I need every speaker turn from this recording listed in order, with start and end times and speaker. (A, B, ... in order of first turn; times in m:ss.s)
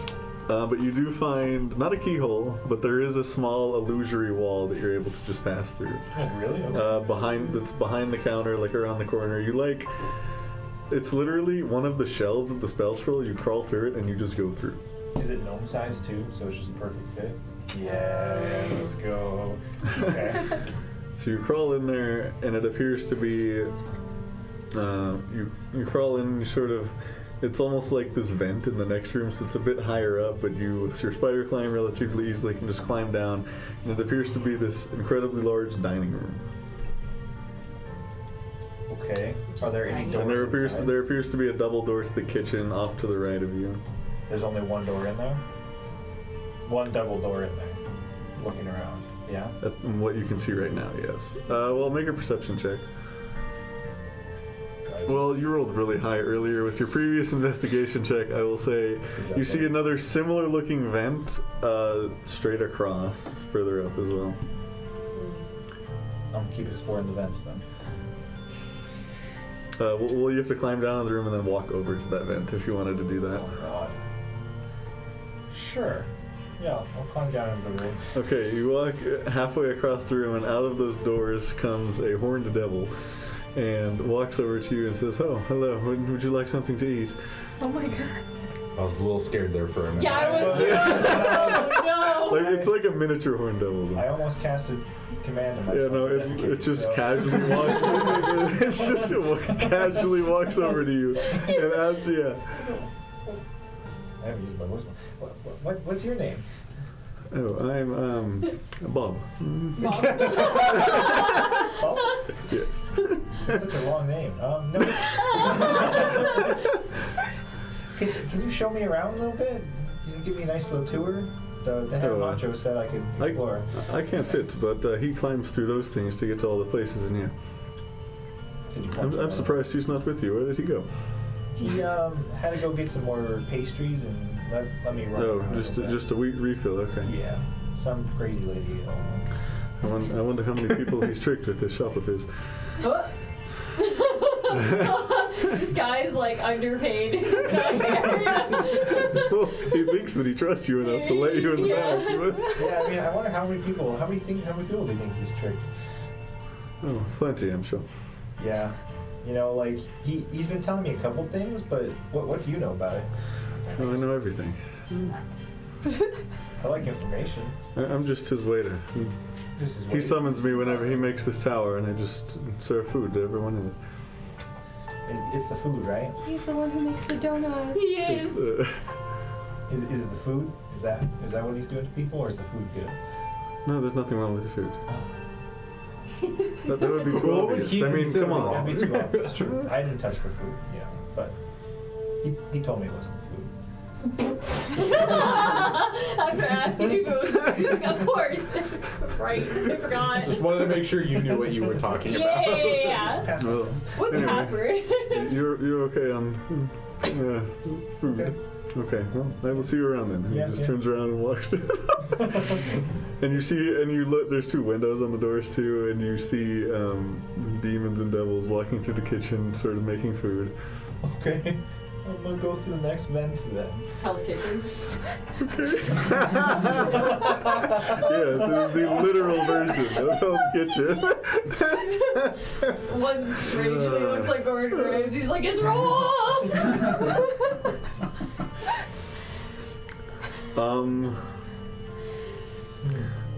0:00.5-0:06.1 A
0:06.1-0:07.0 B
0:06.7-0:09.9 A
0:10.9-0:14.8 A
0:15.1-0:20.6 B
0:17.8-0:18.9 C
0:21.2-0:23.7 A
0:24.7-0:36.4 A
0:38.9-0:41.0 B
0:39.6-0:40.5 C
0:40.1-0:43.8 A
0:44.3-0:45.4 B
0:46.6-0:47.8 B
0:48.4-0:49.6 B
0:49.6-0:52.8 A
0:54.8-0:55.5 B
0:55.0-1:04.4 A
0:59.2-0:59.8 B
1:05.1-1:05.5 C
1:06.3-1:07.6 B
1:09.8-1:13.4 A
1:13.3-1:14.0 B
1:15.5-1:18.0 B
1:18.1-1:22.9 A
1:23.5-1:27.2 A
1:27.6-1:28.2 D
1:28.7-1:30.9 E
1:30.0-1:32.5 C
1:30.1-1:32.7 B
1:30.6-1:34.1 A
1:34.0-1:38.7 B
1:35.7-1:42.6 A
1:44.2-1:46.4 B
1:47.3-1:51.2 A
1:49.8-1:51.6 C
1:51.6-1:52.2 B
1:52.5-1:53.6 A
1:53.4-1:56.5 B
1:58.0-2:03.7 B
2:02.0-2:02.6 A
2:03.2-2:07.3 A
2:08.7-2:09.6 B
2:09.0-2:10.9 A
2:11.6-2:16.0 B
2:15.1-2:17.1 A
2:17.0-2:19.2 B
2:19.8-2:22.3 A
2:22.8-2:23.1 C
2:23.8-2:29.2 C
2:29.0-2:32.6 A
2:30.8-2:32.7 C
2:32.6-2:35.7 B
2:36.8-2:37.8 A
2:38.4-2:43.1 B
2:43.7-2:44.6 A
2:46.6-2:47.6 B
2:47.7-2:49.1 A
2:49.6-2:50.8 B
2:49.9-2:53.8 A
2:55.0-2:56.2 B
2:56.2-2:58.0 D
2:57.7-2:58.4 C
2:58.0-2:58.8 A
2:59.7-3:03.0 B
3:03.6-3:04.8 A
3:06.6-3:08.9 A
3:06.7-3:09.5 E
3:08.1-3:11.3 B
3:12.2-3:13.5 B
3:14.7-3:20.6 C
3:20.1-3:23.0 E
3:22.0-3:23.3 C
3:23.0-3:24.5 B
3:23.4-3:32.4 A
3:23.9-3:25.3 C
3:30.3-3:30.8 B
3:33.2-3:40.5 A
3:41.0-3:43.9 B
3:44.0-3:44.8 C
3:45.9-3:47.1 A
3:47.8-3:52.4 A
3:52.7-3:57.3 C
3:53.4-3:54.4 A
4:00.5-4:01.2 A
4:02.8-4:03.1 B